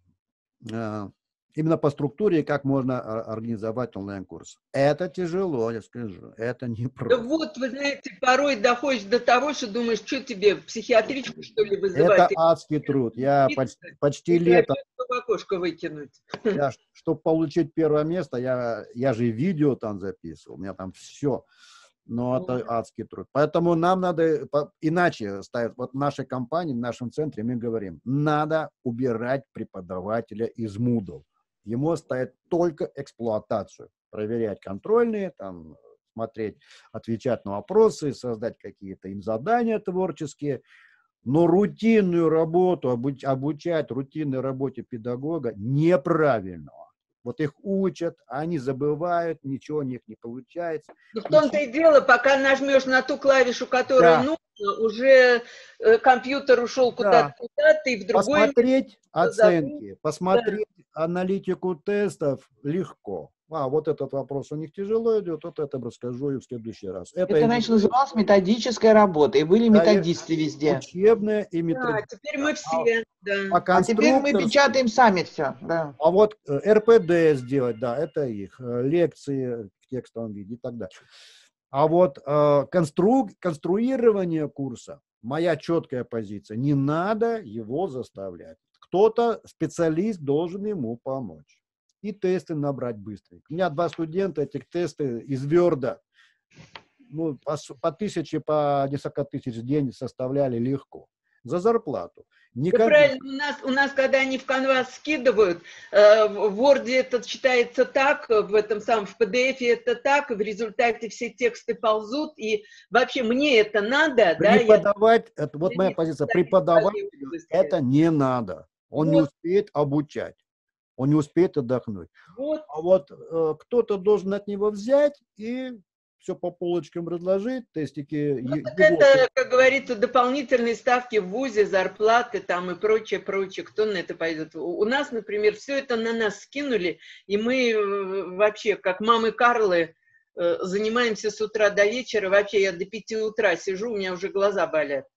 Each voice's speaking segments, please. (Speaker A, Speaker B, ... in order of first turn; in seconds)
Speaker A: 0.7-7.3, 11.9-14.8, 16.5-21.4, 22.1-40.6, 41.2-51.6, 54.0-54.3, 57.0-57.3, 58.1-67.9, 69.7-70.1, 70.7-72.9, 73.5-74.8, 76.0-80.9, 81.7-96.0, 97.1-103.2, 114.4-120.4, 121.0-122.1, 122.7-129.3
Speaker B: 7.1-12.4, 13.5-16.6, 51.1-58.6, 59.2-59.8, 71.7-73.6, 102.7-114.8, 115.7-117.7, 119.0-119.3, 122.3-122.7, 128.5-145.1
Speaker C: 67.3-70.8, 73.8-76.0